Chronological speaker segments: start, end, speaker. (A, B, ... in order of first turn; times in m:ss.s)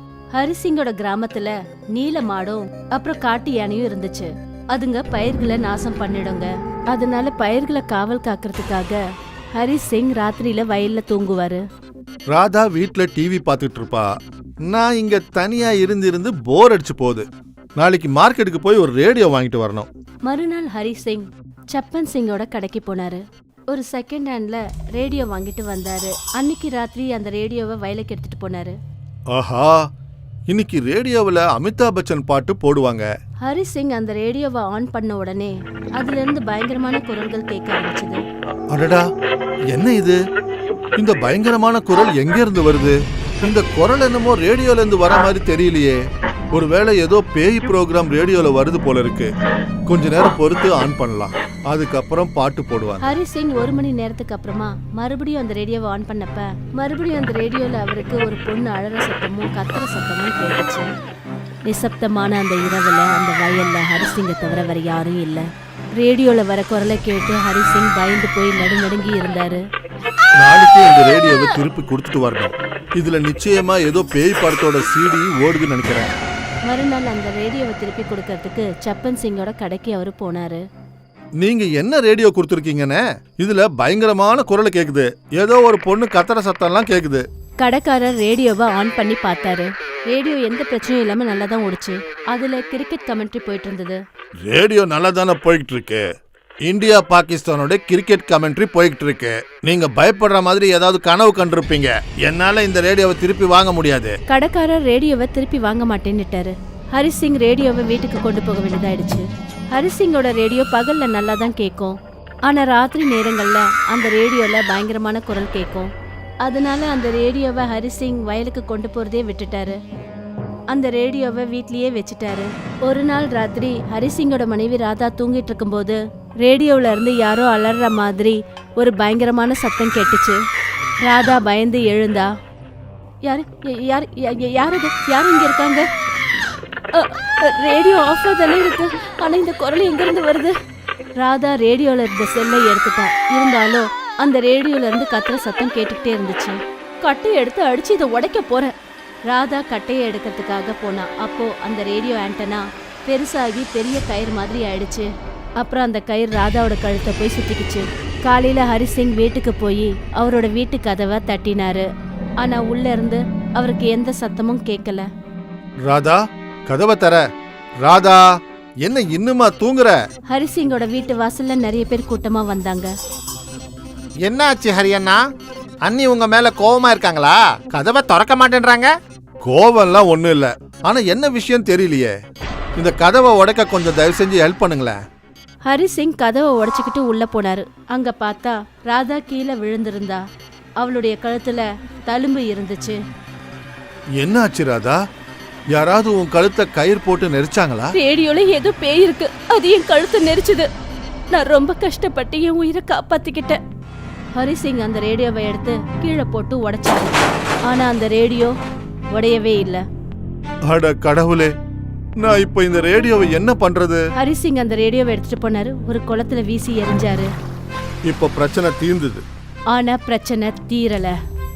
0:00.3-0:09.0 A
0:09.6-0:11.6 A
0:12.3-0:14.1 B
0:14.6-0:17.2 B
0:17.8-0:19.9 B
0:20.3-0:28.8 A
0:29.3-0:29.8 B
0:30.5-0:33.1 B
0:33.4-0:38.2 A
0:38.7-0:39.0 B
0:39.7-0:40.2 B
0:41.0-0:46.0 B
0:46.5-0:49.3 B
0:49.9-0:53.1 B
0:53.0-1:00.9 A
1:01.7-1:09.6 A
1:10.4-1:16.1 B
1:16.7-1:20.6 A
1:21.4-1:27.2 B
1:27.6-1:34.0 A
1:34.5-1:36.0 B
1:36.6-1:44.2 B
1:44.3-1:55.9 A
1:56.4-1:59.8 A
2:00.7-2:10.4 A
2:11.0-2:12.3 A
2:13.2-2:15.9 A
2:17.0-2:20.6 A
2:21.2-2:28.7 A
2:29.3-2:41.9 A
2:42.4-2:45.1 A
2:45.8-2:47.2 B
2:47.8-2:48.2 B
2:48.8-2:50.0 B
2:50.3-2:52.9 A
2:54.2-2:55.2 C
2:55.8-2:58.9 C
2:59.4-3:02.1 B
3:02.8-3:05.0 B
3:05.7-3:10.2 A
3:10.8-3:13.0 A
3:14.2-3:15.0 B
3:15.7-3:17.9 B
3:17.9-3:20.7 A
3:21.3-3:23.6 A
3:24.4-3:28.6 A
3:29.1-3:29.8 A
3:30.7-3:31.5 B
3:32.2-3:34.0 B
3:34.2-3:37.3 A
3:38.1-3:39.2 B
3:39.7-3:41.2 A